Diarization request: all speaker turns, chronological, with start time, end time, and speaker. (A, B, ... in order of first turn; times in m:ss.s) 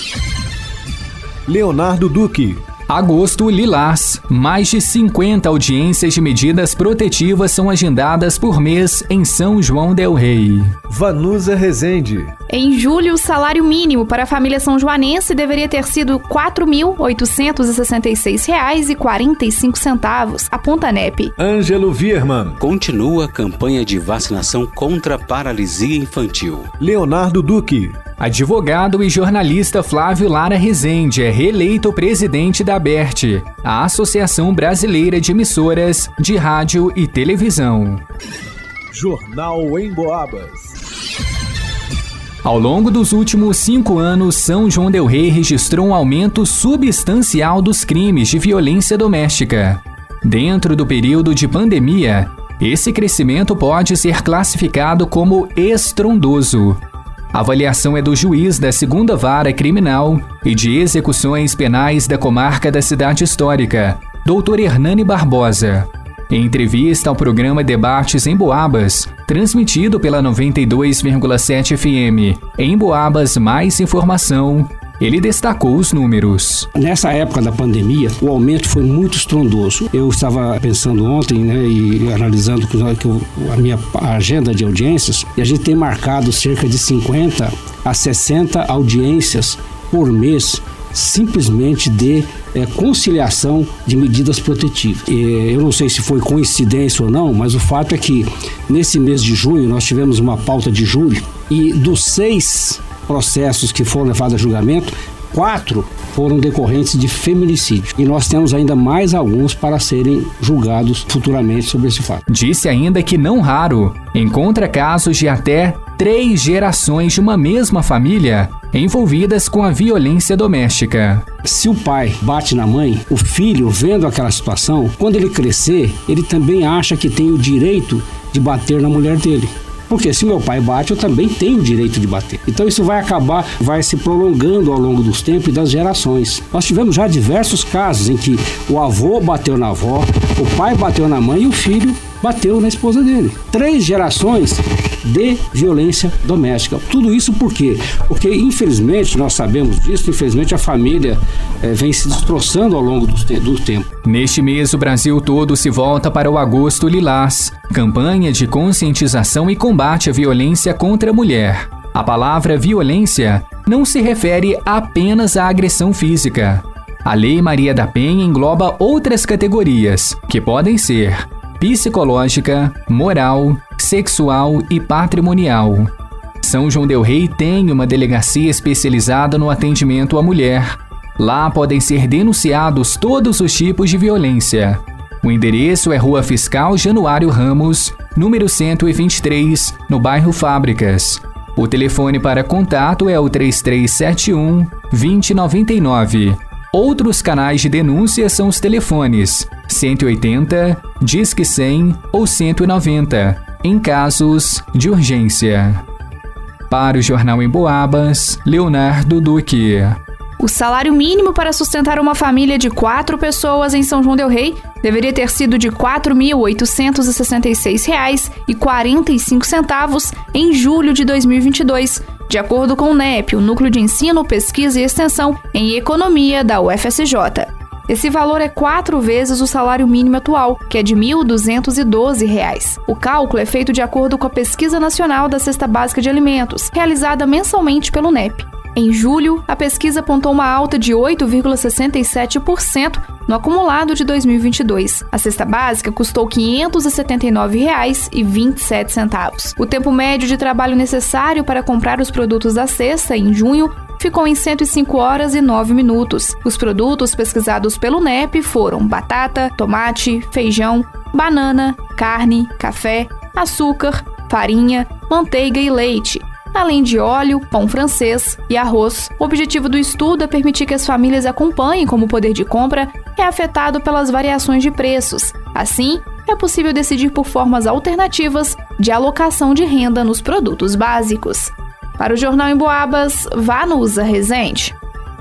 0:01.5-0:02.6 A
0:02.9-0:10.7 B
0:10.9-0:12.3 A
0:12.5-0:21.3 C
0:21.4-0:22.6 A
0:22.6-0:26.7 D
0:26.8-0:28.0 A
0:28.2-0:38.0 B
0:38.9-0:40.7 A
0:42.4-0:56.8 B
0:57.3-1:16.7 B
1:16.8-1:52.2 E
1:52.3-2:01.3 B
2:01.4-2:33.9 E
2:34.0-2:55.9 B
2:56.4-3:25.8 B
3:26.7-3:30.0 B
3:30.4-4:44.7 C